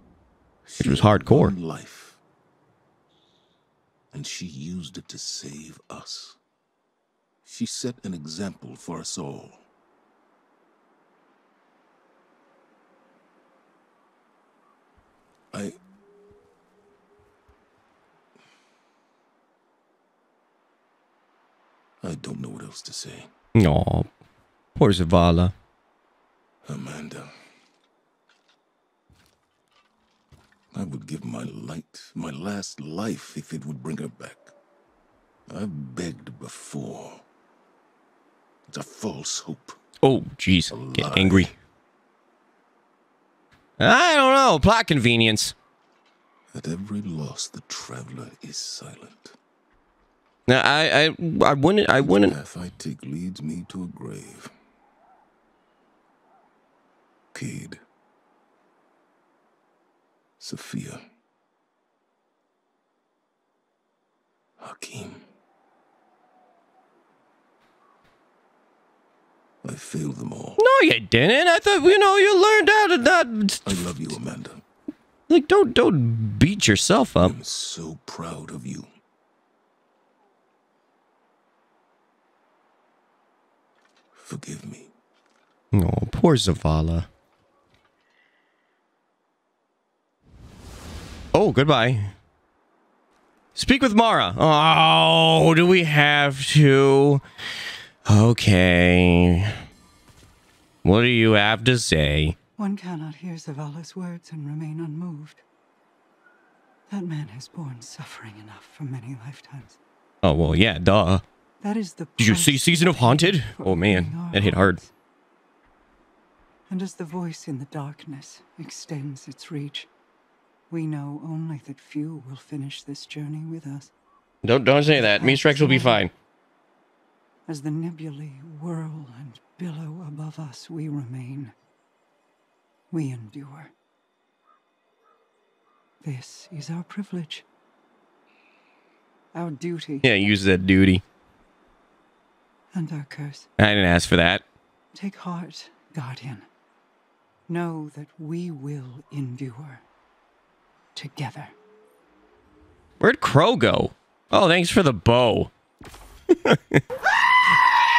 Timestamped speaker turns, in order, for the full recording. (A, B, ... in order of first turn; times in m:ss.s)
0:00.7-0:02.2 A
0:00.8-0:01.5 B
0:04.1-0:06.4 A
0:07.4-0:09.6 A
0:22.0-0:23.3 A
0:23.5-0:24.0 B
0:24.8-0:25.5 B
0:26.6-0:27.3 A
0:30.7-0:34.5 A
0:35.5-0:37.2 A
0:38.7-0:39.8 A
0:40.0-0:41.5 B
0:40.7-0:41.5 A
0:43.8-0:45.5 B
0:46.5-0:49.4 A
0:50.5-0:52.3 B
0:52.0-0:54.5 A
0:57.3-0:57.8 A
1:00.4-1:01.0 A
1:04.6-1:05.3 A
1:09.6-1:10.6 A
1:10.6-1:13.7 B
1:13.6-1:14.6 A
1:15.3-1:17.3 B
1:17.2-1:18.9 A
1:24.2-1:24.9 A
1:25.7-1:27.1 B
1:31.3-1:32.1 B
1:33.5-1:37.2 B
1:38.1-1:39.6 B
1:40.8-1:42.3 B
1:42.6-1:45.4 C
1:46.9-1:49.8 C
1:50.2-1:51.2 B
1:51.6-1:54.9 C
1:52.2-1:54.8 B
1:56.7-1:59.9 C
2:00.7-2:03.9 C
2:04.4-2:06.1 B
2:04.9-2:06.0 C
2:07.5-2:11.5 C
2:12.9-2:13.7 C
2:16.0-2:17.4 C
2:19.3-2:20.1 C
2:20.0-2:21.0 B
2:22.7-2:23.5 C
2:23.6-2:24.4 B
2:24.9-2:26.5 C
2:27.5-2:29.8 C
2:30.9-2:31.5 C
2:33.0-2:35.5 B